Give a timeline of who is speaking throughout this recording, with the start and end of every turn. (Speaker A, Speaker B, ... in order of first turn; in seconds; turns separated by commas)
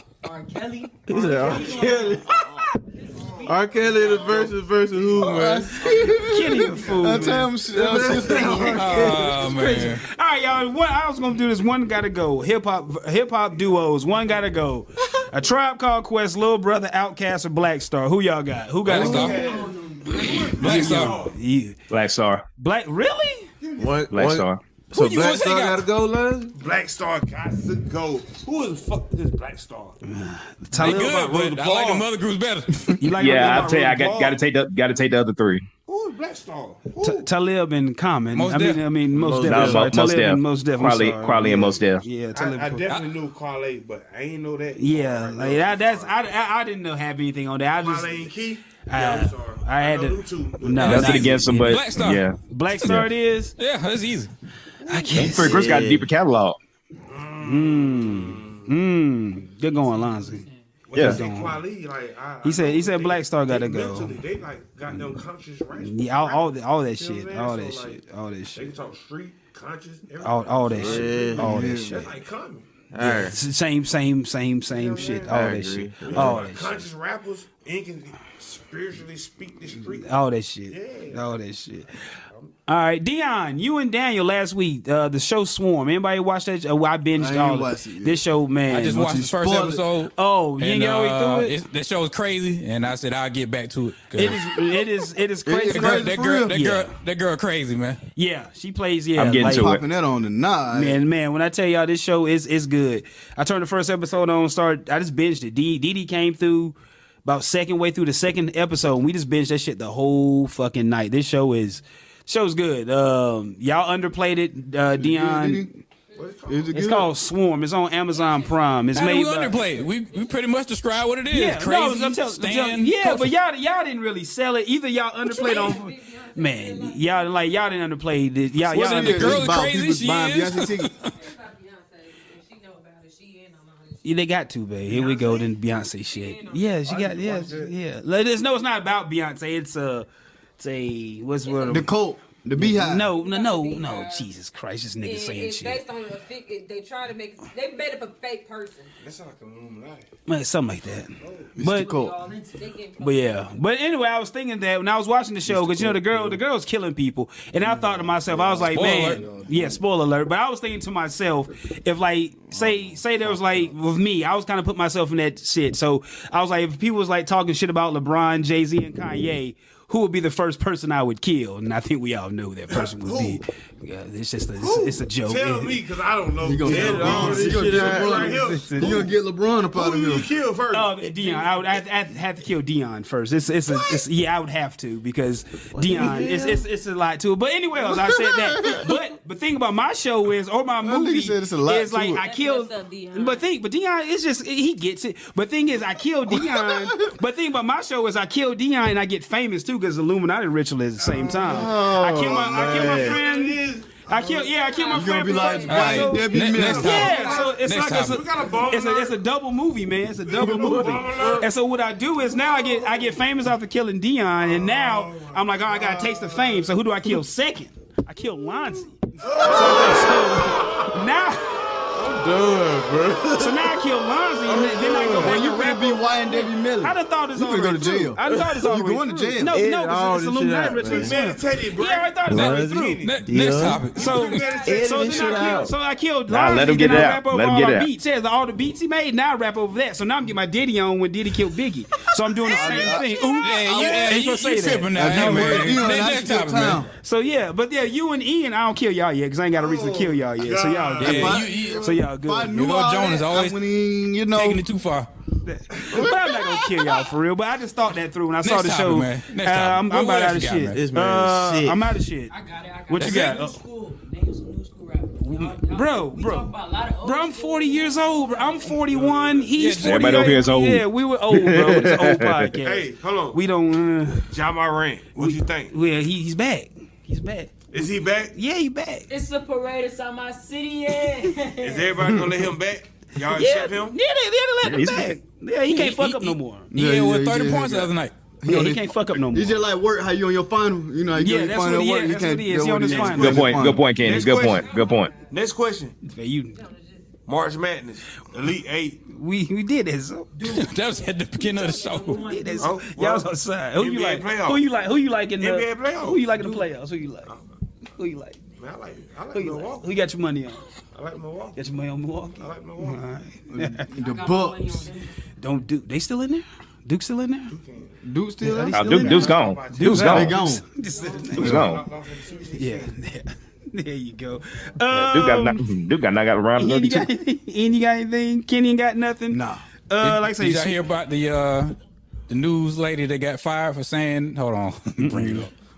Speaker A: 0.2-4.5, Speaker B: 1.1-2.2, Speaker C: 1.1-1.9, Speaker C: 3.2-5.0, Speaker B: 3.4-5.9, Speaker D: 5.2-9.1, Speaker E: 5.2-5.6, Speaker C: 5.8-7.4, Speaker F: 6.2-7.5, Speaker B: 7.6-9.9, Speaker C: 8.2-8.6, Speaker E: 8.7-10.0, Speaker F: 9.4-19.4, Speaker E: 18.9-19.4, Speaker C: 18.9-21.3, Speaker A: 18.9-21.0, Speaker F: 20.4-21.8, Speaker E: 20.6-21.2, Speaker G: 21.9-22.4, Speaker F: 22.6-23.5, Speaker C: 23.6-24.0, Speaker B: 23.8-26.5, Speaker G: 24.1-24.6, Speaker E: 24.9-25.8, Speaker C: 26.5-30.0, Speaker F: 30.0-31.3, Speaker E: 30.8-33.0, Speaker C: 30.8-32.1, Speaker F: 33.0-34.0, Speaker G: 33.1-35.6, Speaker C: 33.3-34.4, Speaker C: 35.9-37.3, Speaker F: 37.0-42.8, Speaker E: 38.3-38.8, Speaker B: 39.1-39.9, Speaker G: 39.5-42.0, Speaker C: 42.3-46.2, Speaker F: 44.8-48.3, Speaker C: 47.7-51.1, Speaker F: 48.9-51.8, Speaker E: 50.8-52.2, Speaker G: 50.8-53.1, Speaker F: 52.5-53.5, Speaker E: 53.6-54.3, Speaker C: 54.9-55.1, Speaker F: 54.9-55.6, Speaker G: 55.1-56.6, Speaker B: 55.2-56.1, Speaker C: 57.1-58.7, Speaker F: 57.4-61.6, Speaker A: 59.6-60.7, Speaker C: 60.9-68.0, Speaker G: 60.9-61.2, Speaker F: 62.4-64.2, Speaker F: 65.8-68.7, Speaker C: 68.5-71.4, Speaker F: 70.2-72.1, Speaker B: 70.7-71.9, Speaker D: 71.4-72.1, Speaker C: 71.9-72.7, Speaker B: 72.9-73.4, Speaker F: 73.0-76.9, Speaker C: 74.7-75.5, Speaker B: 75.2-76.5, Speaker C: 76.0-80.1, Speaker F: 80.0-81.9, Speaker C: 80.7-81.4, Speaker F: 82.7-89.1, Speaker D: 87.2-88.2, Speaker E: 88.7-94.5, Speaker D: 88.8-89.8, Speaker F: 90.2-91.5, Speaker F: 94.1-96.9, Speaker D: 95.5-96.5, Speaker E: 95.7-98.0, Speaker F: 98.2-99.7, Speaker G: 99.2-99.8, Speaker D: 99.4-101.0, Speaker F: 100.7-115.8, Speaker D: 115.0-115.7, Speaker C: 116.2-116.9, Speaker D: 116.5-117.1, Speaker F: 116.7-119.6, Speaker H: 118.1-119.0, Speaker E: 118.9-123.3, Speaker H: 119.5-120.5, Speaker F: 121.3-129.5, Speaker H: 125.2-127.8, Speaker E: 128.7-131.1, Speaker D: 128.7-130.9, Speaker H: 131.0-134.1, Speaker F: 134.0-140.1, Speaker H: 134.9-136.8, Speaker C: 136.8-137.7, Speaker F: 140.6-141.9, Speaker H: 141.4-141.8, Speaker D: 141.7-143.1, Speaker F: 142.6-145.8, Speaker H: 143.0-144.3, Speaker H: 145.0-148.9, Speaker C: 149.0-150.1, Speaker F: 150.3-151.9, Speaker C: 151.2-151.6, Speaker D: 151.6-152.2, Speaker A: 151.6-152.8, Speaker H: 152.5-153.4, Speaker F: 153.0-175.8, Speaker D: 155.4-156.4, Speaker D: 157.6-159.8, Speaker E: 158.7-159.2, Speaker D: 162.5-163.7, Speaker C: 172.7-173.4, Speaker C: 174.6-179.1, Speaker D: 176.4-180.3, Speaker B: 176.6-178.5, Speaker F: 176.8-179.0, Speaker C: 179.7-181.3, Speaker F: 180.7-221.5, Speaker B: 185.7-186.6, Speaker D: 188.6-188.8, Speaker D: 190.8-192.2, Speaker H: 192.2-193.4, Speaker D: 196.3-197.1, Speaker C: 201.0-204.5, Speaker D: 201.4-202.2, Speaker B: 202.1-203.2, Speaker H: 203.2-203.5, Speaker H: 204.6-206.1, Speaker D: 204.9-206.9, Speaker E: 205.7-208.2, Speaker C: 206.5-209.2, Speaker H: 206.9-207.5, Speaker B: 210.4-211.5, Speaker C: 210.4-211.5, Speaker C: 212.6-213.1, Speaker C: 214.4-216.8, Speaker C: 219.2-220.8, Speaker B: 219.4-220.2, Speaker B: 221.9-223.8, Speaker F: 223.4-233.0, Speaker B: 224.4-225.4, Speaker D: 225.1-229.6, Speaker B: 229.5-231.2, Speaker C: 230.8-233.3, Speaker B: 232.3-233.9, Speaker E: 232.3-234.5, Speaker C: 233.8-235.6, Speaker F: 233.9-245.8, Speaker B: 234.6-235.7, Speaker G: 236.3-237.9, Speaker D: 242.4-244.1, Speaker E: 243.4-246.8, Speaker D: 244.9-246.9, Speaker F: 247.0-252.6, Speaker C: 249.5-251.4, Speaker E: 251.0-252.0, Speaker D: 251.0-254.7, Speaker E: 252.5-253.6, Speaker E: 254.3-255.1, Speaker F: 255.4-262.3, Speaker C: 255.8-256.1, Speaker E: 258.4-260.8, Speaker B: 260.7-261.9, Speaker A: 262.3-268.9, Speaker F: 262.9-263.6, Speaker E: 262.9-263.5, Speaker F: 265.2-274.3, Speaker C: 268.9-269.6, Speaker E: 269.6-270.4, Speaker G: 269.8-272.5, Speaker C: 272.5-273.4, Speaker C: 274.2-275.7, Speaker F: 275.2-277.6, Speaker C: 277.7-278.3, Speaker F: 278.3-279.1, Speaker A: 279.1-282.1, Speaker C: 281.6-284.0, Speaker F: 283.3-286.7, Speaker G: 284.6-285.2, Speaker E: 285.7-288.1, Speaker D: 286.7-293.8, Speaker F: 288.4-289.6, Speaker F: 291.1-293.7, Speaker G: 293.1-295.1, Speaker C: 293.9-294.7, Speaker H: 294.1-295.4, Speaker C: 295.3-295.9, Speaker F: 296.0-296.6, Speaker H: 296.5-297.2, Speaker C: 297.2-299.0, Speaker F: 299.1-300.3, Speaker A: 300.3-300.7, Speaker E: 300.4-302.2, Speaker A: 301.4-302.9, Speaker H: 301.6-302.0, Speaker F: 302.2-307.3, Speaker C: 302.6-304.6, Speaker C: 305.4-306.6, Speaker F: 307.9-308.4, Speaker C: 308.6-309.9, Speaker F: 309.3-310.7, Speaker C: 310.9-311.6, Speaker F: 311.5-313.9, Speaker C: 312.4-313.0, Speaker D: 313.5-314.9, Speaker A: 313.9-315.1, Speaker F: 315.4-317.5, Speaker C: 317.5-318.0, Speaker D: 318.0-318.9, Speaker F: 318.4-321.7, Speaker G: 318.7-320.4, Speaker C: 318.8-320.3, Speaker D: 319.9-320.6, Speaker C: 320.9-322.9, Speaker D: 321.4-321.7, Speaker G: 321.4-321.8, Speaker F: 322.5-325.6, Speaker G: 324.9-327.1, Speaker F: 326.6-330.8, Speaker D: 329.3-329.6, Speaker E: 330.0-331.8, Speaker E: 332.3-335.5, Speaker F: 335.0-335.4